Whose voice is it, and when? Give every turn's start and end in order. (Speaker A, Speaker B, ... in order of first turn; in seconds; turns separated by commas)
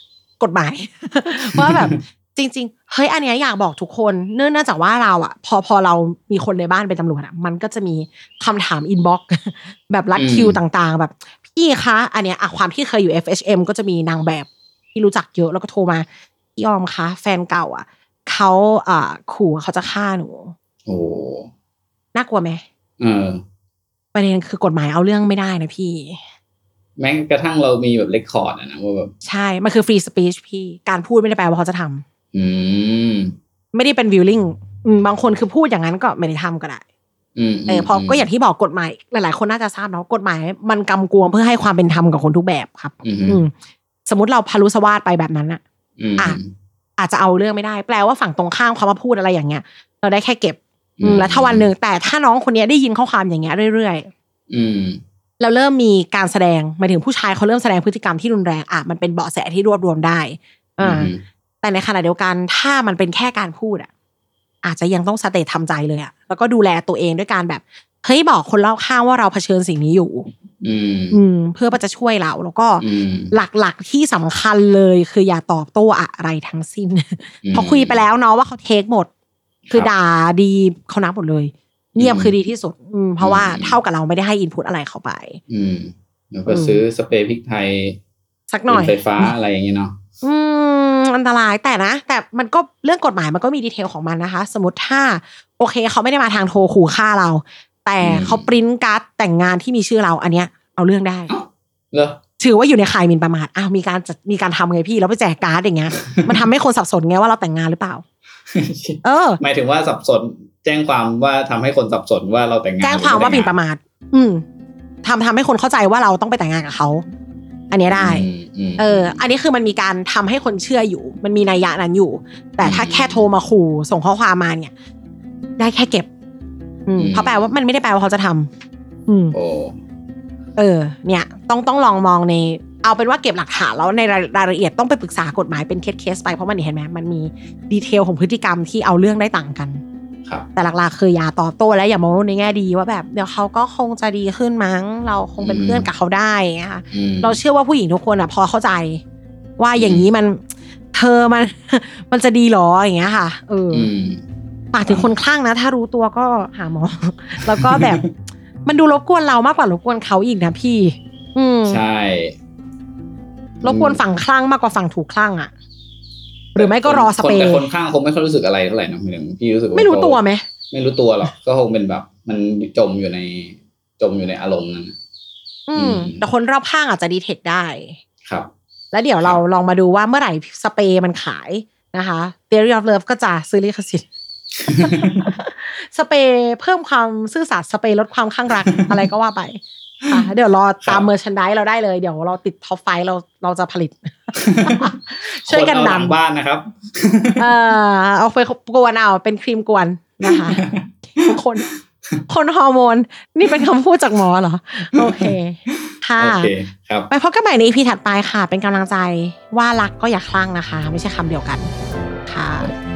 Speaker A: 0.4-16.0, Speaker B: 1.5-2.0, Speaker B: 10.2-10.6, Speaker A: 16.6-20.5, Speaker B: 20.9-21.5, Speaker A: 22.1-22.6, Speaker B: 23.0-23.4, Speaker A: 24.1-26.2, Speaker B: 27.0-29.1, Speaker A: 29.2-32.0, Speaker B: 32.3-33.3, Speaker A: 33.7-36.8, Speaker B: 37.4-38.2, Speaker A: 37.7-43.5, Speaker B: 43.0-43.4, Speaker A: 44.1-45.6, Speaker B: 46.0-46.5, Speaker A: 47.0-54.1, Speaker B: 51.0-51.7, Speaker B: 54.5-55.0, Speaker A: 55.4-61.1, Speaker B: 60.8-61.2, Speaker A: 61.6-63.9, Speaker A: 64.6-70.3, Speaker B: 70.6-71.2, Speaker A: 71.1-79.1, Speaker B: 72.8-73.3, Speaker B: 77.4-78.0, Speaker A: 79.7-85.4, Speaker B: 82.0-82.3, Speaker B: 83.2-83.8, Speaker B: 85.5-88.0, Speaker A: 86.5-86.8, Speaker A: 88.5-89.3, Speaker B: 88.7-90.0, Speaker A: 90.2-101.3, Speaker B: 98.0-98.5, Speaker B: 101.3-102.2, Speaker A: 102.4-108.0, Speaker B: 108.5-113.5, Speaker A: 109.0-109.4, Speaker A: 112.8-114.4, Speaker A: 115.0-117.0, Speaker A: 117.7-118.2, Speaker B: 117.9-119.2, Speaker A: 118.8-124.7, Speaker B: 122.6-123.2, Speaker A: 125.6-126.1, Speaker A: 126.9-128.5, Speaker B: 127.0-127.3, Speaker A: 129.1-129.3, Speaker B: 129.3-129.8, Speaker A: 130.6-139.8, Speaker A: 140.6-149.0, Speaker B: 145.4-145.9, Speaker B: 146.9-147.4, Speaker A: 149.6-150.4, Speaker B: 149.8-150.0, Speaker A: 150.9-153.9, Speaker B: 153.7-154.2, Speaker A: 154.7-158.0, Speaker B: 154.9-155.1, Speaker B: 157.5-158.1, Speaker A: 158.7-161.8, Speaker B: 161.6-162.3, Speaker A: 163.6-165.5, Speaker B: 163.6-164.0, Speaker A: 166.5-167.7, Speaker B: 166.6-170.2, Speaker A: 169.7-170.4, Speaker B: 170.7-174.9, Speaker A: 175.7-178.0, Speaker B: 175.8-176.2, Speaker B: 178.2-178.5, Speaker A: 178.9-184.0, Speaker A: 184.7-196.2, Speaker B: 184.8-185.3, Speaker B: 188.6-188.9, Speaker B: 194.4-197.5, Speaker A: 197.4-201.7, Speaker B: 200.2-202.1, Speaker A: 202.3-206.5, Speaker B: 204.9-207.1, Speaker A: 207.1-211.7, Speaker A: 212.3-212.7